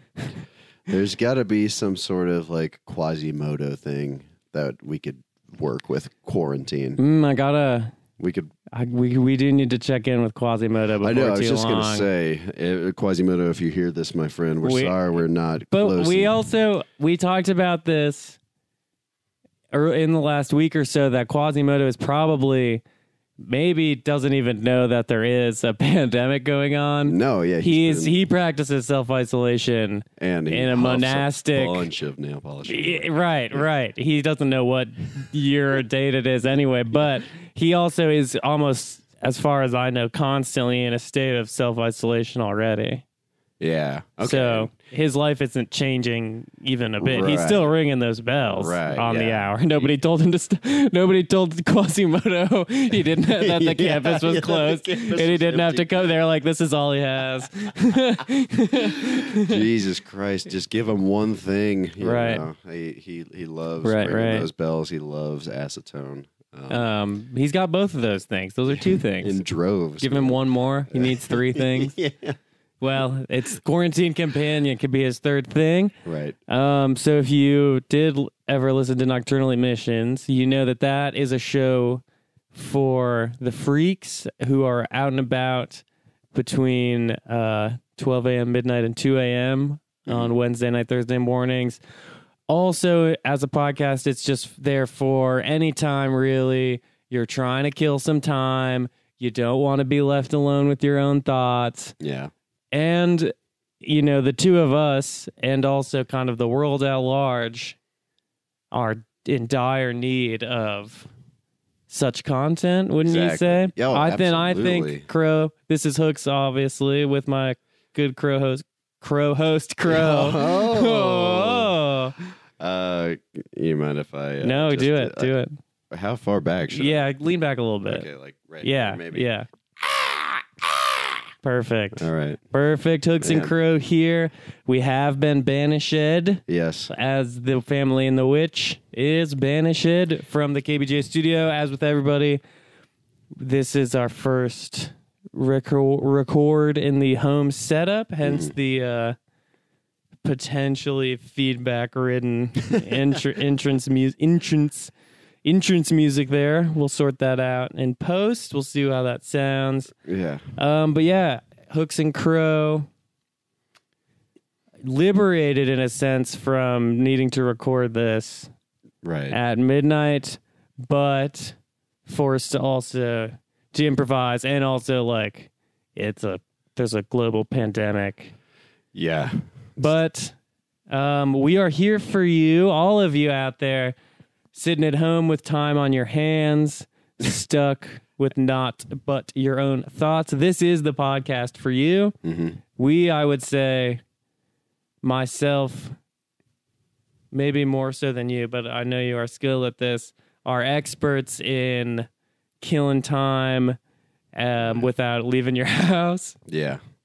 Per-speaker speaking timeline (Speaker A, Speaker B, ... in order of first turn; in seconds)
Speaker A: 0.9-7.0, 8.2-8.5, 11.0-16.3, 27.0-28.1, 30.2-33.6, 43.6-44.7, 47.0-47.6, 48.5-49.9, 53.4-55.9, 59.3-66.8, 68.7-70.4, 70.9-72.4, 76.0-76.3, 90.1-90.3, 102.0-102.3, 113.0-115.1, 119.8-121.7, 122.6-125.3, 125.9-127.0, 127.8-129.3, 129.8-131.0, 131.9-132.4, 133.2-133.5, 136.5-136.9, 148.2-148.5, 160.0-160.5, 169.0-169.4, 178.9-179.9, 192.2-192.6, 204.6-204.9, 206.4-206.8
Speaker B: 7.0-7.9, 8.7-12.1, 14.6-14.9, 15.7-18.4, 19.7-22.8, 23.4-31.9, 32.6-43.0, 44.2-59.6, 62.0-62.4, 63.8-64.5, 66.7-69.4, 70.0-72.0, 72.8-75.9, 76.5-91.8, 92.5-102.0, 102.7-107.8, 108.7-111.1, 111.9-122.3, 124.4-125.6, 126.7-128.1, 128.6-129.5, 131.4-142.4, 143.4-149.2, 150.2-154.9, 155.4-159.9, 160.6-162.9, 164.8-168.5, 169.3-178.3, 179.8-180.3, 180.9-183.9, 184.5-192.2, 192.8-194.0, 195.0-195.9, 197.3-202.1, 202.6-203.8, 204.3-206.4